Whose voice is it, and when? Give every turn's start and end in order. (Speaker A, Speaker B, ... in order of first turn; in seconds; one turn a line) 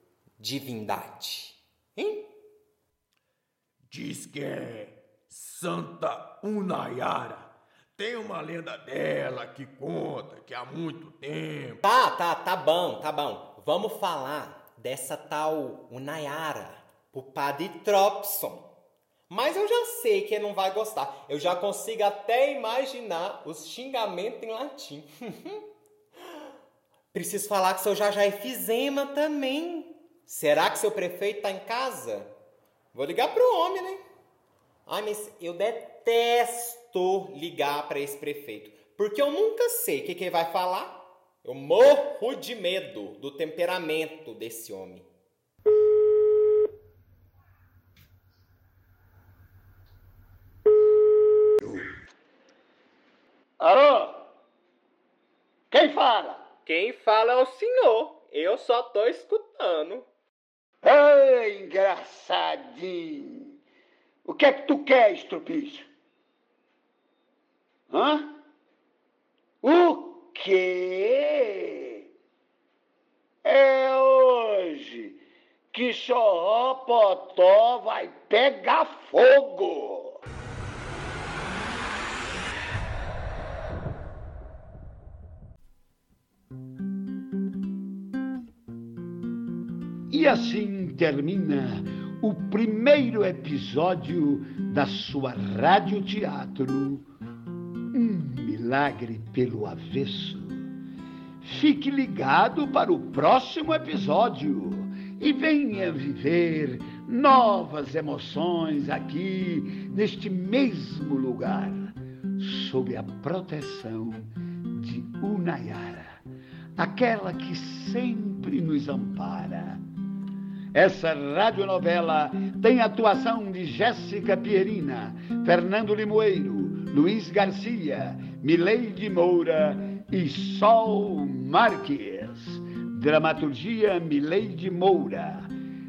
Speaker A: 0.4-2.2
Speaker B: 3.9-11.8
Speaker A: 11.8-18.6
Speaker A: 19.3-25.6
Speaker A: 27.1-32.3
Speaker A: 32.9-34.0
Speaker A: 34.9-45.1
Speaker C: 53.6-54.3
Speaker C: 55.7-56.4
Speaker A: 56.6-60.0
Speaker C: 60.8-63.5
Speaker C: 64.2-65.9
Speaker C: 67.9-68.3
Speaker C: 69.6-72.1
Speaker C: 73.4-80.2
Speaker C: 90.1-97.1
Speaker C: 97.9-100.6
Speaker C: 101.4-116.2
Speaker C: 116.8-119.8
Speaker C: 120.7-135.5